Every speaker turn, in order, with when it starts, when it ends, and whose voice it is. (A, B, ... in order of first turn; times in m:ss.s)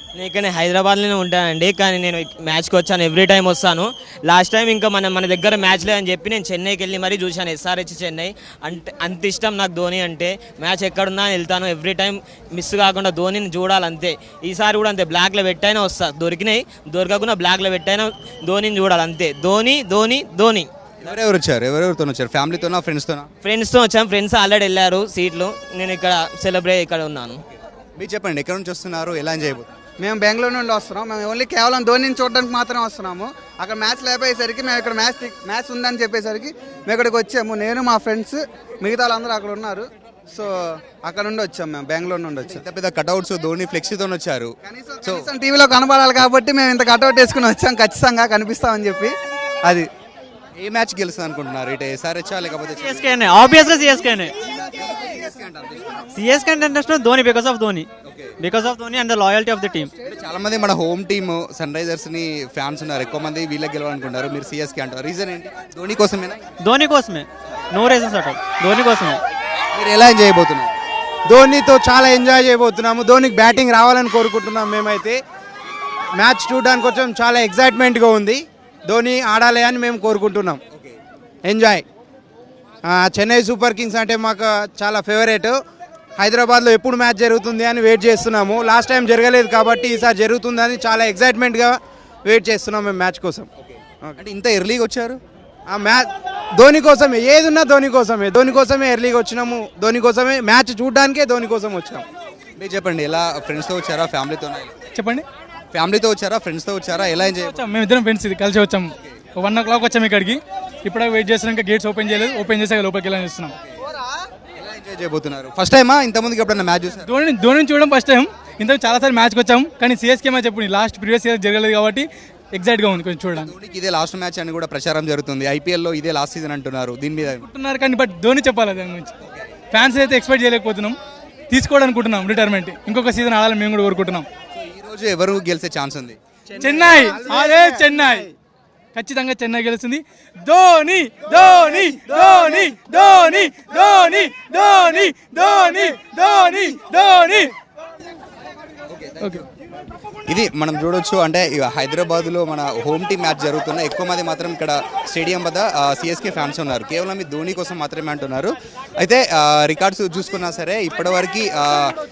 0:00.2-0:20.7 A
0:21.0-0:23.3 B
0:23.4-0:27.4 A
0:28.0-0:29.7 B
0:30.0-0:42.6 C
0:42.4-0:45.3 B
0:44.6-0:49.1 C
0:50.6-0:53.1 B
0:52.8-0:54.3 D
0:54.6-0:56.0 B
0:56.1-0:59.9 D
0:58.1-0:58.4 B
1:00.0-1:06.4 B
1:06.6-1:09.2 D
1:09.7-1:10.7 B
1:11.3-1:15.2 E
1:16.2-1:20.6 E
1:20.7-1:21.0 B
1:21.4-1:21.8 E
1:22.8-1:25.6 E
1:26.2-1:33.5 E
1:34.2-1:35.2 B
1:35.7-1:42.0 E
1:42.6-1:44.7 B
1:45.0-1:45.2 F
1:45.7-1:47.6 B
1:47.4-1:53.5 F
1:54.6-1:57.1 B
1:57.1-2:03.5 F
2:03.3-2:07.5 B
2:07.3-2:09.1 F
2:09.7-2:11.0 F
2:11.5-2:14.3 F
2:14.6-2:16.2 B
2:16.5-2:18.3 E
2:16.6-2:18.3 F
2:19.0-2:27.5 F
2:28.9-2:29.4 B
2:30.3-2:42.0 B